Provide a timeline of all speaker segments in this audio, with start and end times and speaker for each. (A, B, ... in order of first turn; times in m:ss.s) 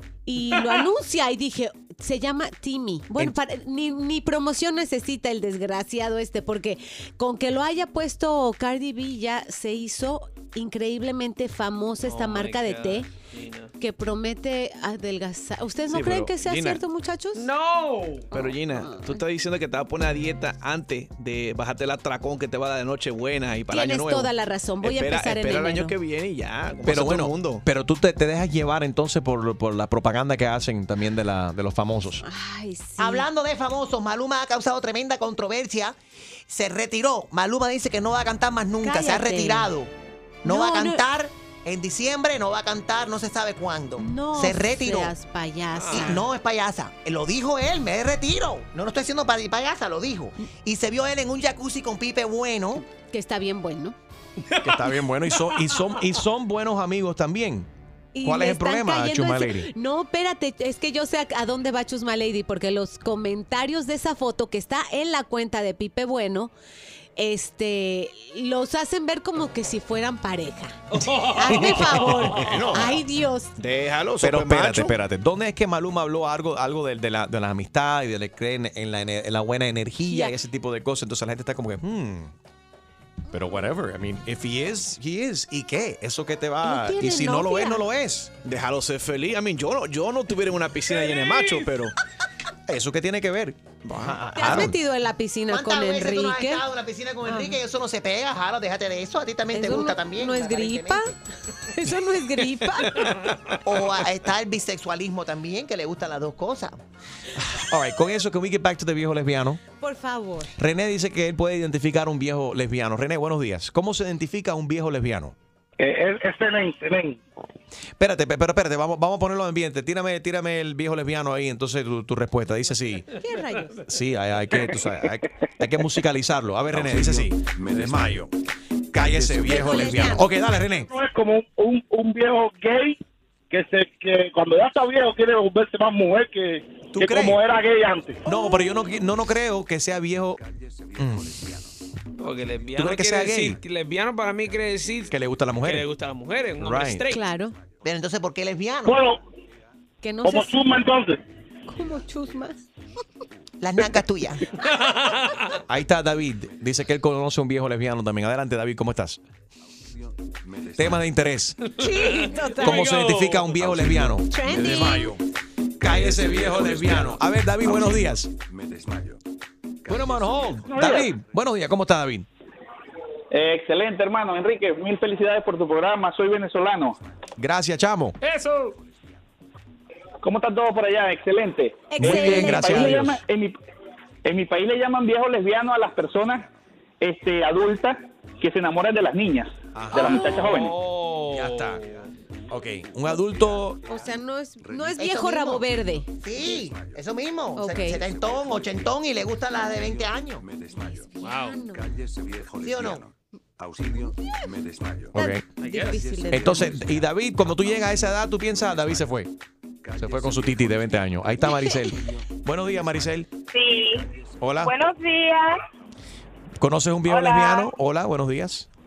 0:00.2-0:13.1 A
0:12.0-0:13.7 B
0:13.8-0:17.4 A
0:15.9-0:16.8 C
0:17.3-0:18.3 B
0:18.3-0:27.6 C
0:18.3-0:19.2 A
0:23.7-0:25.9 A
0:26.8-0:32.2 D
0:32.2-0:33.2 A
0:33.0-0:36.0 E
0:36.5-0:39.9 E
0:38.8-0:39.7 A
0:40.4-0:45.1 E
0:40.4-0:41.0 A
0:44.0-0:46.2 A
0:45.7-0:46.1 B
0:45.9-0:52.8 E
0:53.1-0:54.0 A
0:54.6-0:57.7 D
0:55.4-0:55.9 B
0:58.1-1:06.5 A
0:58.2-0:59.7 D
1:07.2-1:10.8 A
1:10.9-1:12.6 B
1:11.3-1:13.5 A
1:12.4-1:13.0 C
1:13.6-1:14.9 C
1:14.2-1:22.3 D
1:20.0-1:20.3 A
1:23.3-1:28.3 D
1:26.6-1:27.8 A
1:28.4-1:31.9 C
1:32.7-1:34.8 D
1:34.3-1:36.6 A
1:35.5-1:41.1 E
1:37.2-1:37.6 A
1:39.5-1:41.1 A
1:41.7-1:43.0 A
1:43.6-1:46.8 E
1:47.4-1:49.6 D
1:49.8-1:50.5 A
1:50.6-1:55.3 D
1:55.8-1:57.2 F
1:58.0-2:03.1 D
2:03.2-2:03.8 A
2:03.8-2:08.3 D
2:06.7-2:08.3 G
2:08.9-2:10.9 D
2:09.0-2:09.7 G
2:09.4-2:10.3 A
2:10.9-2:13.0 F
2:13.5-2:18.2 F
2:16.9-2:17.4 D
2:18.2-2:20.4 D
2:18.2-2:18.7 A
2:20.2-2:21.7 G
2:21.0-2:21.4 D
2:22.2-2:25.1 B
2:22.8-2:23.6 D
2:25.1-2:25.9 D
2:25.6-2:27.2 B
2:26.6-2:27.0 D
2:27.1-2:27.6 A
2:27.8-2:29.0 E
2:28.8-2:29.2 F
2:30.0-2:30.6 A
2:30.2-2:31.2 F
2:31.7-2:32.6 A
2:33.6-2:34.4 E
2:34.6-2:35.4 B
2:35.7-2:39.2 D
2:39.9-2:41.1 G
2:40.8-2:41.6 D
2:41.8-2:42.9 A
2:41.8-2:43.5 B
2:42.6-2:45.2 D
2:43.6-2:44.2 G
2:44.3-2:45.1 A
2:45.8-2:48.3 D
2:45.8-2:49.2 G
2:49.8-2:50.8 G
2:49.9-2:52.3 D
2:53.3-2:57.0 H
2:57.4-2:58.2 D
2:58.2-2:58.7 B
2:58.7-2:59.2 G
3:00.2-3:03.6 H
3:01.9-3:03.2 A
3:02.0-3:03.2 D
3:04.2-3:06.4 H
3:06.1-3:06.6 G
3:07.0-3:10.7 H
3:09.7-3:10.3 D
3:09.9-3:10.5 A
3:10.4-3:11.9 B
3:11.3-3:11.8 D
3:11.7-3:12.1 G
3:12.5-3:13.8 D
3:12.6-3:15.0 G
3:13.8-3:16.1 A
3:15.0-3:15.7 E
3:15.8-3:17.0 G
3:16.2-3:20.4 E
3:17.6-3:18.0 A
3:18.0-3:18.9 G
3:19.6-3:21.1 G
3:20.8-3:21.9 A
3:21.2-3:21.6 B
3:21.6-3:25.2 G
3:22.6-3:23.0 E
3:25.1-3:25.4 D
3:25.2-3:26.7 A
3:25.6-3:26.0 B
3:25.7-3:29.1 G
3:26.3-3:29.3 D
3:29.8-3:31.3 G
3:30.0-3:33.3 D
3:31.4-3:31.9 A
3:31.9-3:33.1 G
3:33.5-3:35.6 I
3:34.4-3:34.7 D
3:36.6-3:38.7 D
3:37.1-3:37.7 I